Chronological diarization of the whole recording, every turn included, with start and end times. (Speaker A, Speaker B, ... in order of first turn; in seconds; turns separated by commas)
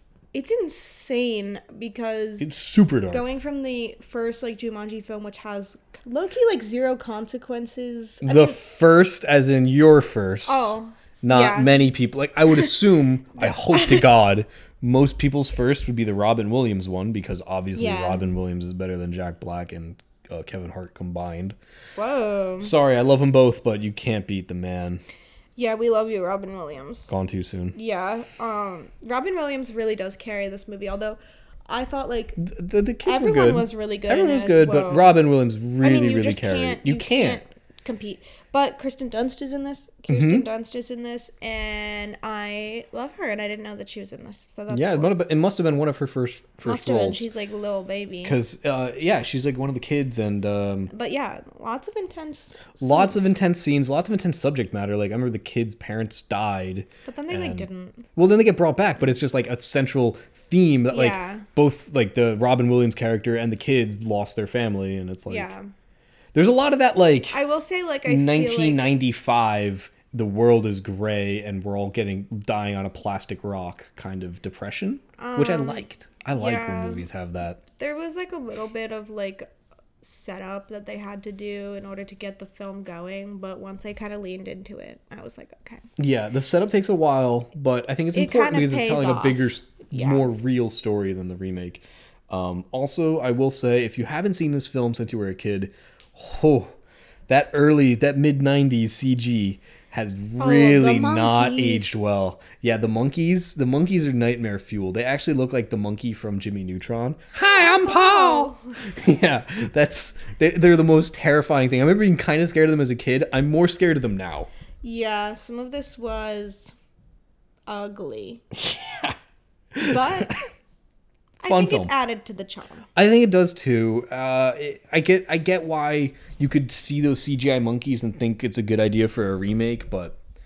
Speaker A: 0.3-2.5, Speaker B: 2.4-3.2, Speaker A: 3.1-8.6, Speaker B: 8.2-21.6, Speaker A: 10.5-11.9, Speaker A: 13.4-14.1, Speaker A: 17.8-18.3, Speaker A: 22.0-22.7, Speaker B: 22.6-25.0, Speaker A: 25.6-27.1, Speaker B: 27.1-27.8, Speaker A: 27.8-32.4, Speaker B: 32.4-37.4, Speaker A: 33.0-35.2, Speaker A: 35.8-45.1, Speaker B: 40.1-40.5, Speaker B: 44.7-47.3, Speaker A: 46.6-48.4, Speaker B: 48.2-50.9, Speaker A: 50.9-53.3, Speaker B: 52.8-65.5, Speaker A: 57.1-58.1, Speaker A: 60.9-61.5, Speaker A: 65.3-65.7, Speaker B: 66.3-67.4, Speaker A: 67.3-68.8, Speaker B: 68.1-77.6, Speaker A: 75.2-77.1, Speaker A: 77.8-79.5, Speaker A: 80.0-85.8, Speaker B: 86.0-96.7, Speaker A: 88.1-90.3, Speaker B: 97.3-114.5, Speaker A: 100.4-102.0, Speaker A: 107.3-108.8, Speaker A: 114.8-116.7, Speaker A: 117.7-118.4, Speaker B: 118.6-119.2, Speaker B: 119.8-120.3, Speaker A: 119.8-120.4, Speaker A: 121.4-122.9, Speaker B: 121.5-121.9, Speaker B: 123.0-130.2